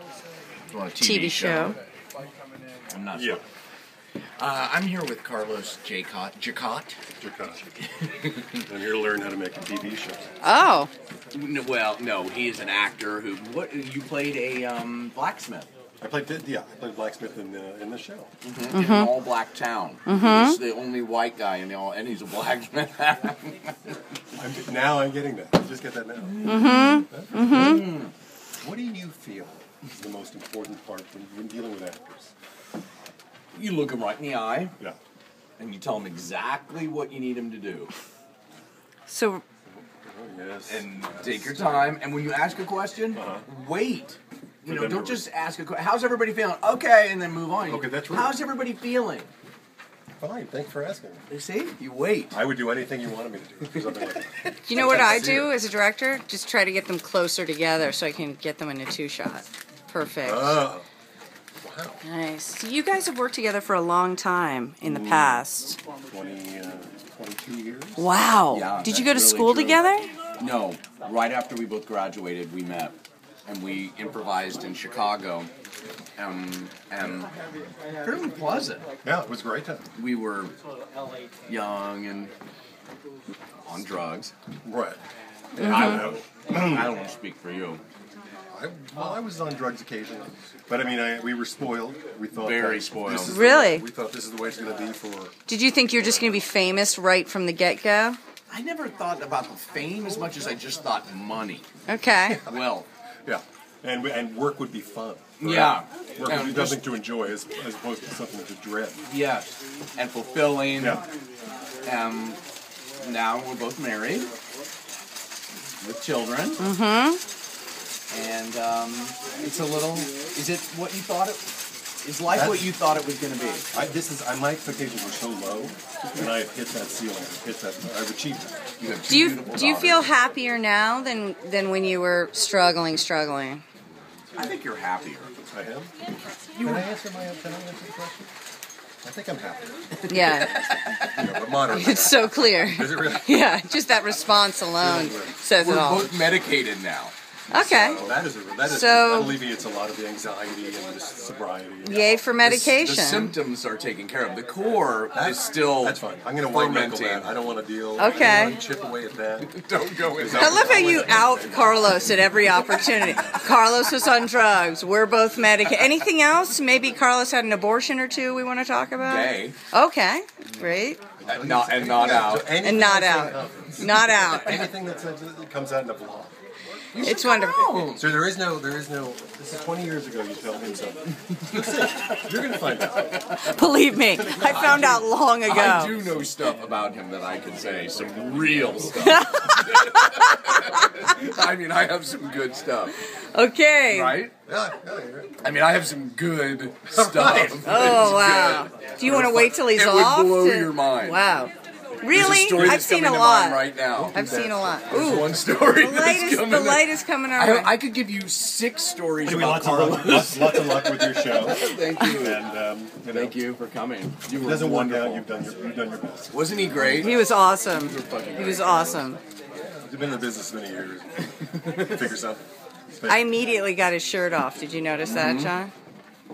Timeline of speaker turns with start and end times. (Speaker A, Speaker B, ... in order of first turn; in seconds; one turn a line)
Speaker A: 0.7-1.8
Speaker B: 1.0-1.8
Speaker A: 2.9-3.4
Speaker C: 3.1-3.4
Speaker A: 4.4-7.0
Speaker C: 7.2-7.6
Speaker A: 8.0-8.4
Speaker C: 8.6-10.3
Speaker B: 10.4-10.9
Speaker A: 11.3-15.7
Speaker C: 16.0-18.3
Speaker A: 18.4-23.7
Speaker B: 18.7-19.1
Speaker B: 20.1-20.6
Speaker C: 24.4-27.8
Speaker A: 26.3-28.1
Speaker B: 26.4-27.8
Speaker C: 28.6-32.3
Speaker A: 33.5-34.7
Speaker A: 35.6-37.9
Speaker B: 39.1-39.4
Speaker C: 39.9-41.9
Speaker A: 40.7-49.3
Speaker C: 43.1-43.4
Speaker C: 44.6-45.3
Speaker C: 47.7-48.4
Speaker C: 50.2-51.2
Speaker A: 51.3-52.4
Speaker C: 52.3-55.5
Speaker B: 54.6-60.6
Speaker C: 60.2-60.8
Speaker C: 61.6-62.0
Speaker B: 62.0-65.8
Speaker C: 64.8-65.4
Speaker C: 66.1-68.1
Speaker B: 68.0-70.1
Speaker A: 68.5-69.8
Speaker A: 70.4-75.5
Speaker A: 76.2-77.3
Speaker A: 78.0-78.8
Speaker C: 79.0-79.8
Speaker A: 80.0-80.5
Speaker A: 81.5-82.3
Speaker A: 83.6-84.3
Speaker C: 84.6-85.0
Speaker A: 85.5-87.8
Speaker B: 85.6-86.0
Speaker C: 85.6-86.9
Speaker C: 88.5-95.3
Speaker A: 92.4-93.4
Speaker B: 93.3-93.8
Speaker B: 95.5-98.2
Speaker A: 98.5-101.6
Speaker B: 101.9-102.4
Speaker C: 102.3-102.6
Speaker A: 102.5-102.9
Speaker C: 103.2-109.0
Speaker A: 105.4-106.8
Speaker A: 109.0-111.0
Speaker C: 110.8-111.0
Speaker A: 111.8-112.4
Speaker A: 113.0-114.3
Speaker A: 115.8-116.6
Speaker B: 116.6-117.2
Speaker A: 118.1-121.4
Speaker A: 122.0-123.7
Speaker C: 122.3-122.7
Speaker C: 123.7-128.5
Speaker A: 128.8-130.1
Speaker B: 129.1-133.6
Speaker A: 134.3-135.3
Speaker C: 135.5-135.9
Speaker A: 136.5-136.9
Speaker C: 136.6-138.3
Speaker C: 139.0-139.8
Speaker B: 140.1-140.5
Speaker A: 140.1-141.1
Speaker C: 141.1-143.6
Speaker B: 141.7-146.3
Speaker C: 144.8-145.4
Speaker A: 145.5-148.2
Speaker B: 147.5-148.0
Speaker C: 147.9-152.2
Speaker B: 148.6-149.4
Speaker B: 151.8-153.4
Speaker A: 152.4-157.3
Speaker C: 155.1-162.2
Speaker B: 158.0-158.6
Speaker A: 159.4-161.5
Speaker B: 160.3-171.0
Speaker A: 169.0-169.6
Speaker C: 171.2-177.1
Speaker A: 171.2-172.6
Speaker B: 172.6-174.7
Speaker A: 176.9-178.0
Speaker B: 177.0-177.9
Speaker C: 177.9-183.2
Speaker A: 181.4-183.4
Speaker B: 183.3-186.0
Speaker C: 184.0-185.1
Speaker A: 184.2-193.0
Speaker C: 188.1-188.9
Speaker B: 188.9-190.6
Speaker B: 193.3-194.2
Speaker A: 193.9-194.3
Speaker C: 194.4-195.4
Speaker A: 195.4-201.2
Speaker C: 196.9-198.4
Speaker B: 197.6-207.8
Speaker A: 202.1-204.2
Speaker C: 202.1-202.9
Speaker C: 203.9-205.4
Speaker A: 204.9-212.4
Speaker C: 209.2-213.4
Speaker A: 213.1-215.3
Speaker C: 214.3-217.2
Speaker A: 216.3-219.2
Speaker B: 217.0-219.2
Speaker C: 219.5-223.3
Speaker B: 223.1-225.7
Speaker C: 225.1-225.6